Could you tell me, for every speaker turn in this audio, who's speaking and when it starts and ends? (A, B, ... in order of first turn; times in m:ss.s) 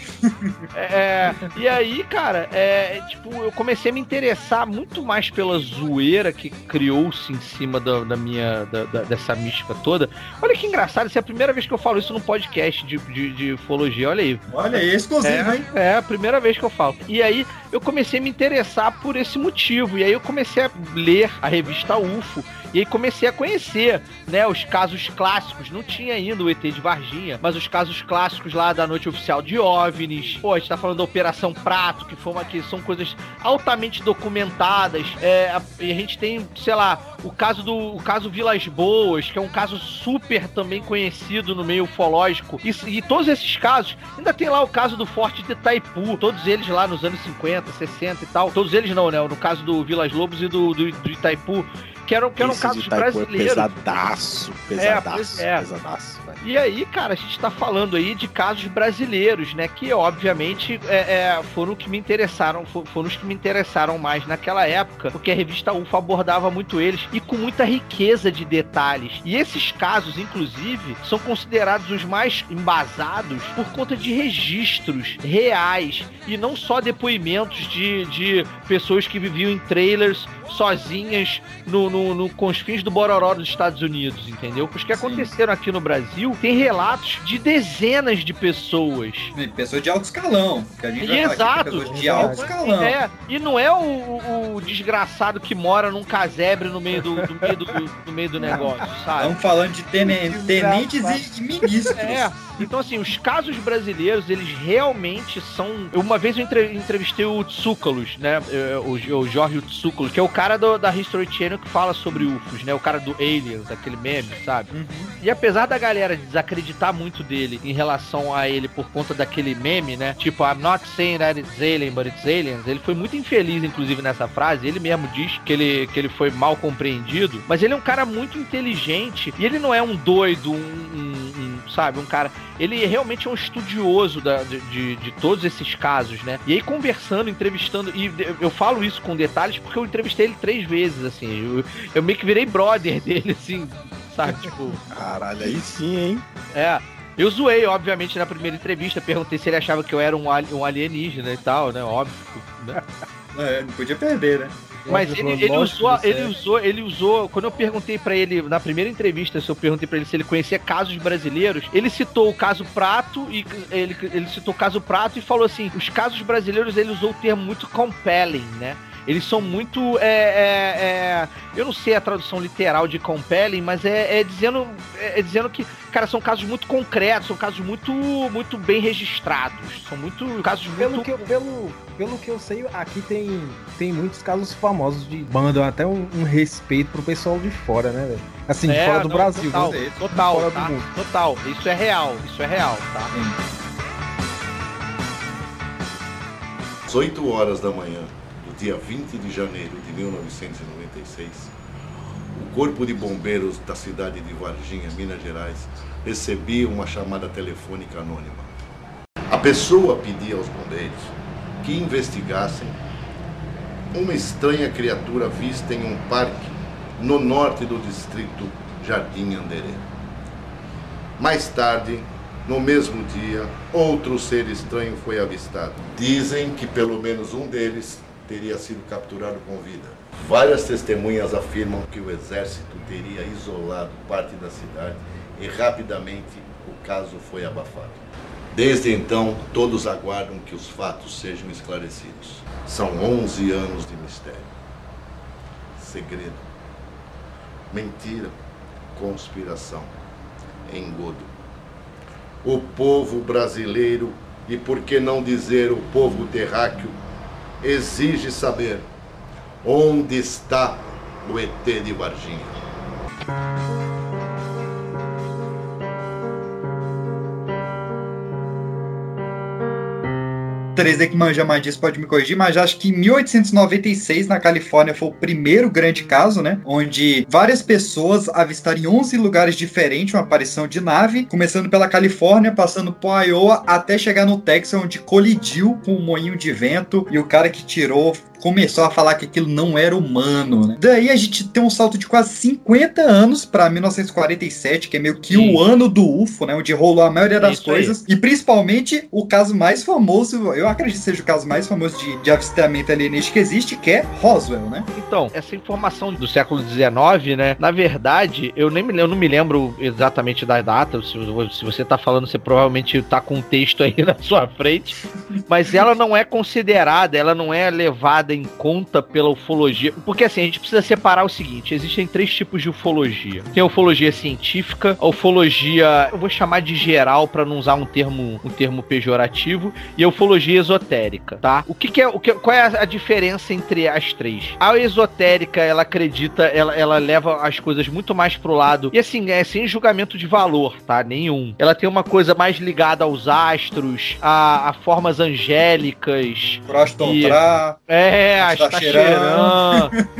0:00.2-0:00.6 A
0:00.7-0:14.4 B
0:14.5-0:15.6 A
0:15.2-0:53.7 B
0:52.4-0:56.4 C
0:54.8-0:55.6 B
0:56.4-1:29.3 B
1:24.9-1:25.3 A
1:29.3-1:33.0 A
1:31.0-1:39.4 B
1:31.9-1:32.4 D
1:38.4-1:38.8 D
1:38.4-1:42.3 A
1:40.0-1:41.2 D
1:41.9-2:24.8 B
1:54.7-1:55.1 A
2:24.9-2:26.2 C
2:26.5-2:32.8 B
2:33.3-2:34.6 A
2:34.8-2:36.3 D
2:34.9-3:01.2 B
3:00.7-3:10.8 D
3:08.7-3:13.1 B
3:09.5-3:10.0 A
3:13.1-3:13.4 A
3:16.8-3:21.5 E
3:22.3-3:28.5 E
3:29.3-3:32.8 E
3:33.9-3:39.8 E
3:41.2-3:58.0 E
3:58.5-4:04.5 E
4:05.8-4:06.4 E
4:07.7-4:08.3 E
4:08.9-4:09.9 E
4:10.7-4:11.3 E
4:12.4-4:17.0 E
4:17.6-4:18.9 E
4:19.6-4:22.6 E
4:30.8-5:04.9 A
4:55.3-4:55.6 B
4:57.4-4:58.0 B
5:04.9-5:49.9 B
5:46.7-5:47.8 A
5:48.4-5:50.1 A